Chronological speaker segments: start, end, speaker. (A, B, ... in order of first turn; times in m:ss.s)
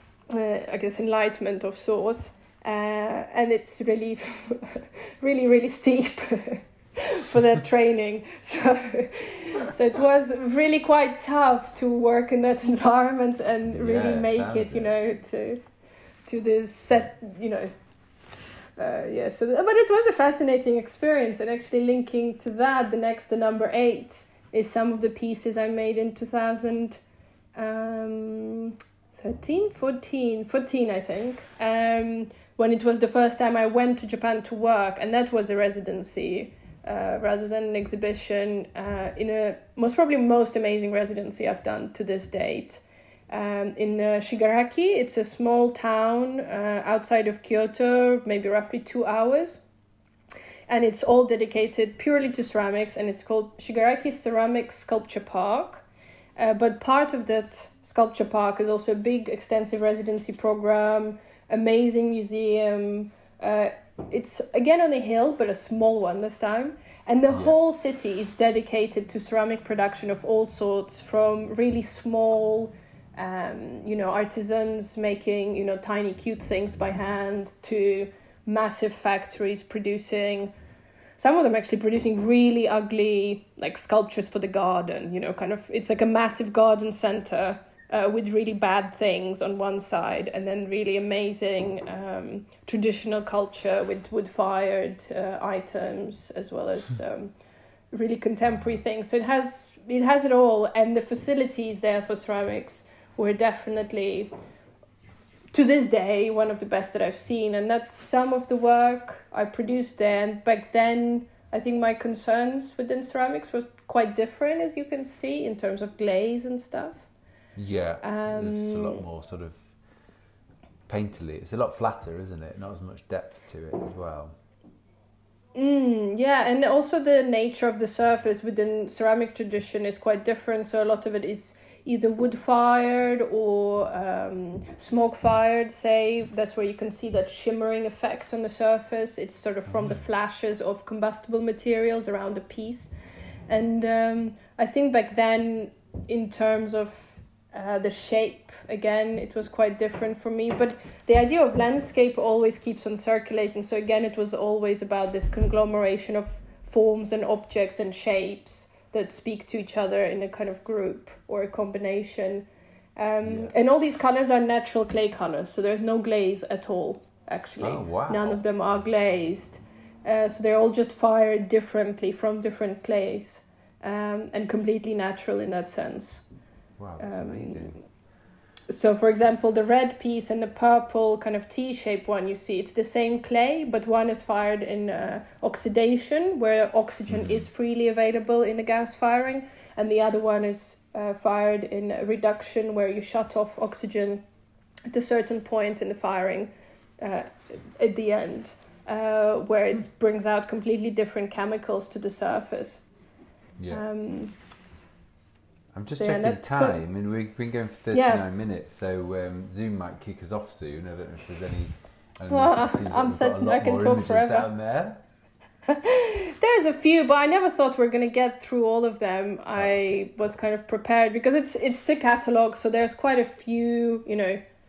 0:00.3-0:15.6 A
0:13.7-0:14.9 B
0:16.3-0:17.7 A
0:18.8-0:27.0 A
0:27.6-0:49.6 A
0:50.7-0:55.9 A
0:56.4-1:20.5 A
1:07.3-1:07.6 B
1:21.2-1:37.3 A
1:37.9-1:44.3 A
1:45.5-1:57.1 A
1:57.6-1:59.7 B
1:58.0-1:59.0 A
2:00.9-2:04.3 B
2:05.6-2:22.9 A
2:23.5-2:42.5 A
2:43.0-2:56.2 A
2:43.2-2:43.5 B
2:47.6-2:48.4 B
2:56.8-2:57.8 B
2:57.0-2:57.8 A
2:58.7-3:14.2 A
3:07.1-3:07.5 B
3:14.9-3:22.8 A
3:23.6-3:23.8 B
3:23.7-3:24.4 A
3:25.7-3:35.0 B
3:25.9-3:26.8 A
3:27.9-3:28.2 A
3:32.3-3:34.5 A
3:35.7-3:44.4 A
3:39.6-3:39.8 B